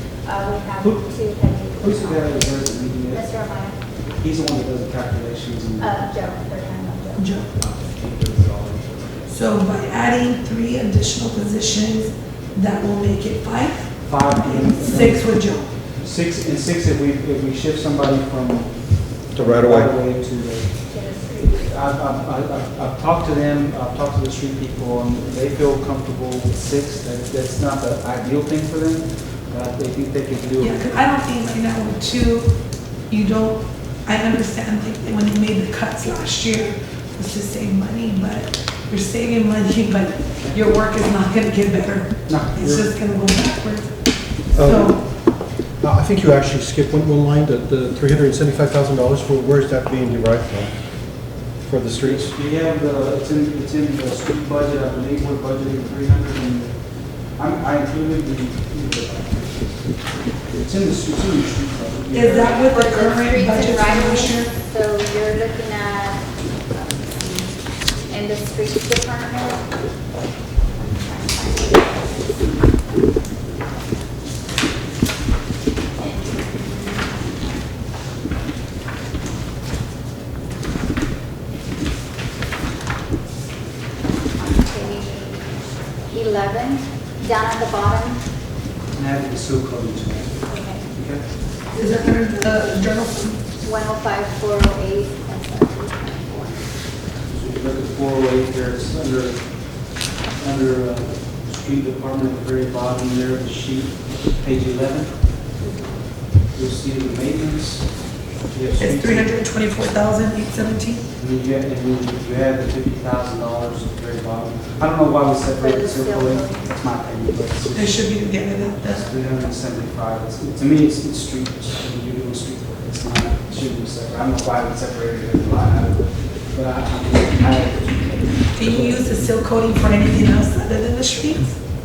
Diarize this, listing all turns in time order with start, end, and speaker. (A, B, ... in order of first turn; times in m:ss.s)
0:00.2-0:02.5 A
0:00.8-0:03.3 B
0:03.1-0:03.8 A
0:04.1-0:06.1 B
0:05.8-0:07.3 A
0:07.2-0:07.5 C
0:07.6-0:09.4 B
0:09.3-0:15.7 C
0:14.0-0:15.3 B
0:16.0-0:30.9 B
0:19.4-0:19.9 D
0:20.9-0:21.7 A
0:30.6-0:45.0 C
0:42.3-0:42.9 B
0:44.5-0:52.4 D
0:52.0-0:56.8 B
0:57.3-1:02.7 B
1:02.1-1:04.5 C
1:02.5-1:09.7 A
1:10.7-1:12.5 A
1:16.0-1:17.4 A
1:24.4-1:25.5 A
1:26.1-1:28.2 A
1:28.9-1:31.3 B
1:30.5-1:30.9 A
1:31.7-1:33.4 C
1:33.6-1:36.6 A
1:37.2-1:45.2 B
1:45.6-1:46.0 A
1:46.5-1:47.9 B
1:48.5-1:49.4 B
1:48.8-1:51.0 C
1:51.2-2:09.3 B
1:55.6-1:56.7 A
1:57.8-1:59.0 C
2:08.5-2:11.6 C